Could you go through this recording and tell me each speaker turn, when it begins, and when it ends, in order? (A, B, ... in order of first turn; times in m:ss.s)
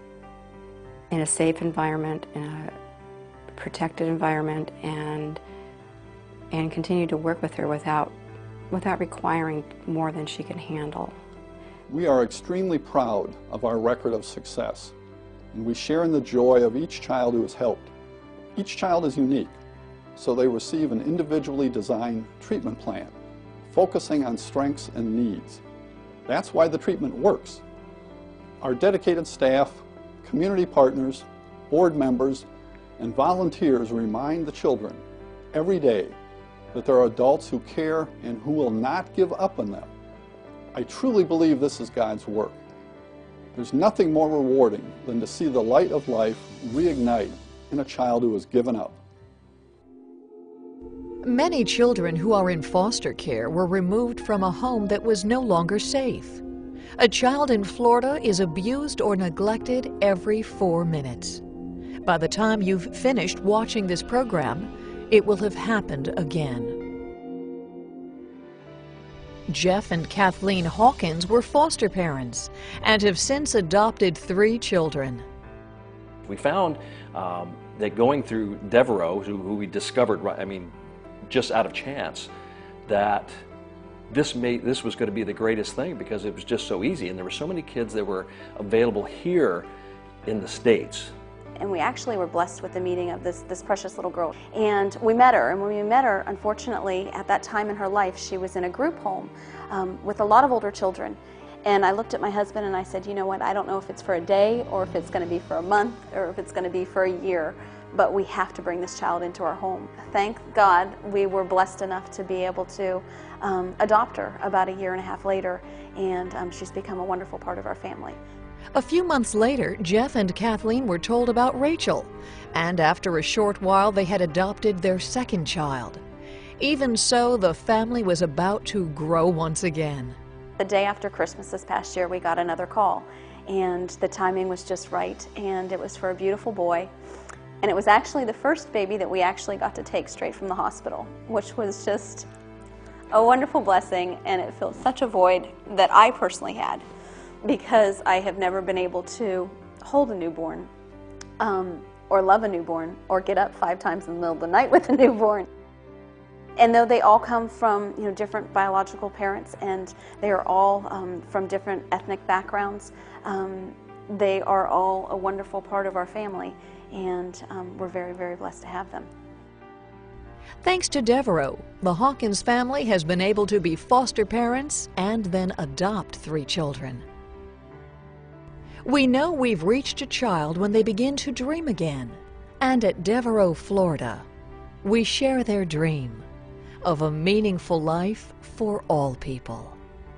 0:01.1-0:02.7 A
0:03.6-0:05.4 A
0:06.5-0:08.1 A
0:08.7-0:11.2 A
0:11.9-0:14.9 B
0:15.6-0:17.9 B
0:18.6-0:19.5 B
0:20.2-0:23.0 B
0:23.8-0:25.5 B
0:26.3-0:27.5 B
0:28.6-0:29.7 B
0:30.3-0:31.2 B
0:31.7-0:32.4 B
0:33.0-0:35.0 B
0:35.6-0:36.1 B
0:36.8-0:39.9 B
0:40.8-0:42.6 B
0:43.6-0:49.0 B
0:51.2-0:56.4 C
0:57.0-1:01.4 C
1:02.0-1:06.8 C
1:09.5-1:15.2 C
1:16.3-1:20.7 D
1:21.3-1:22.3 D
1:22.9-1:23.3 D
1:24.1-1:29.7 D
1:30.3-1:31.1 D
1:31.6-1:58.2 E
1:58.7-2:06.0 C
2:06.6-2:10.2 C
2:10.6-2:16.9 E
2:17.6-2:22.3 E
2:23.1-2:26.8 E
2:27.4-2:30.7 E
2:31.4-2:35.5 E
2:36.6-2:49.1 E
2:50.6-2:57.0 C
2:58.8-3:04.3 C
3:04.8-3:06.2 C
3:06.8-3:09.8 C